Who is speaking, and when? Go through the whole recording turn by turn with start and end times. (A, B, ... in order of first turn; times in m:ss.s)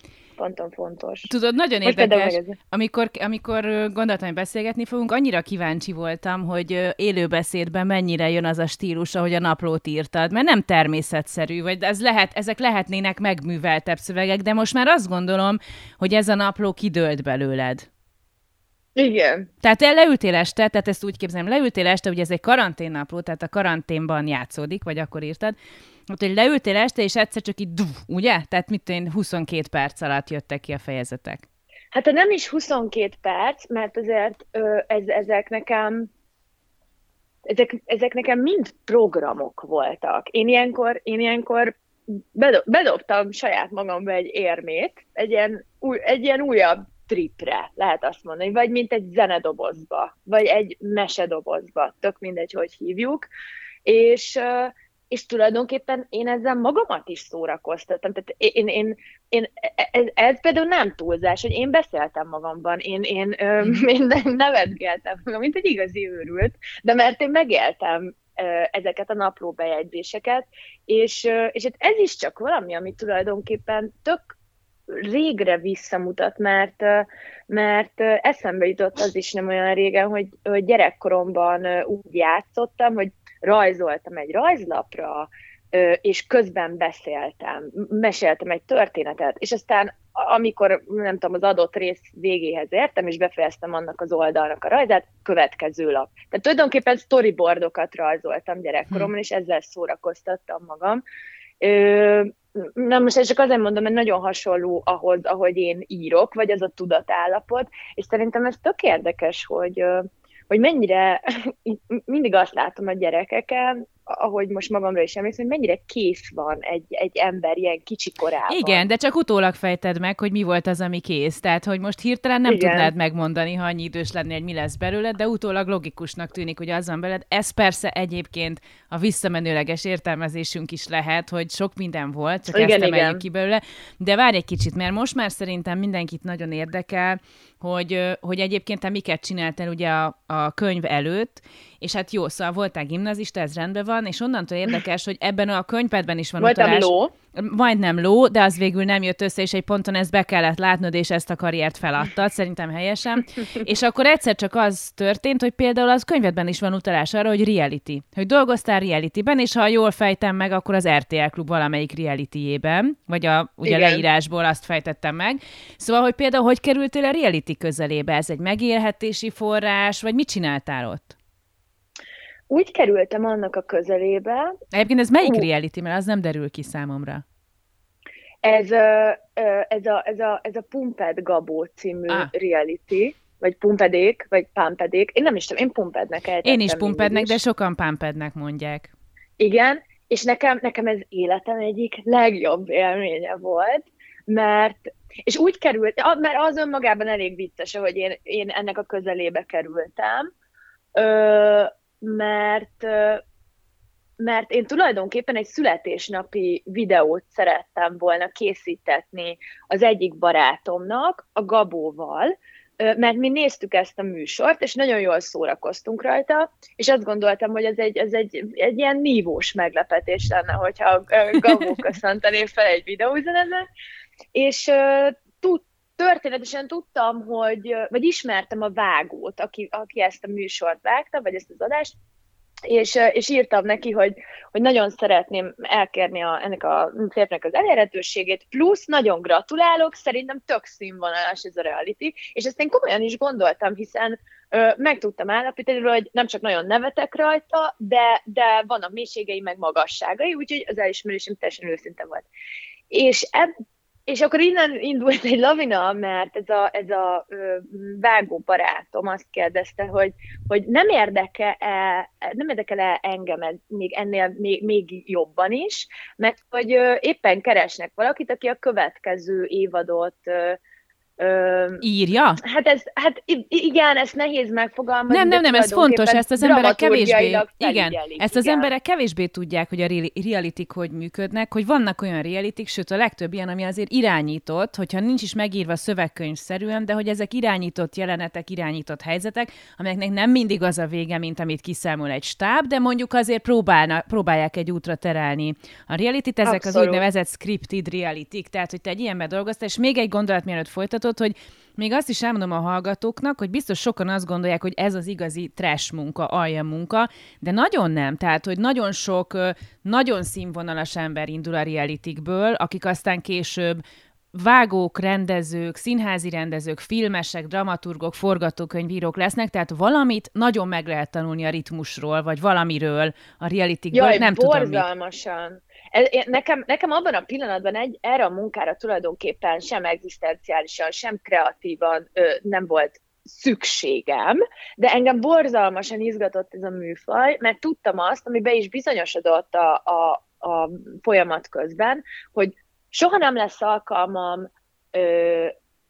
0:00.4-0:01.3 A
0:01.3-0:17.9 B
0:01.8-0:02.6 A
0:19.0-0:19.5 A
0:19.6-0:25.6 B
0:26.1-0:31.4 B
0:31.9-0:36.1 A
0:37.4-0:53.3 A
0:53.8-1:14.3 A
1:14.9-1:41.0 A
1:41.6-1:58.8 A
1:58.5-2:51.2 B
2:02.4-2:02.9 A
2:12.5-2:13.2 A
2:26.4-2:27.1 A
2:43.6-2:44.0 A
2:52.5-2:54.5 A
2:54.7-2:57.2 B
2:58.4-3:07.4 A
3:06.4-3:08.9 B
3:09.4-3:20.3 A
3:21.0-3:23.2 A
3:24.2-3:43.7 A
3:44.3-3:51.9 A
3:52.7-4:12.3 A
4:12.9-4:13.5 A
4:14.1-4:30.6 A
4:31.2-4:31.8 A
4:31.8-4:32.4 B
4:32.4-4:38.7 A
4:35.1-5:13.8 B
4:56.4-4:57.0 A
5:14.3-5:24.8 B
5:23.9-5:45.5 A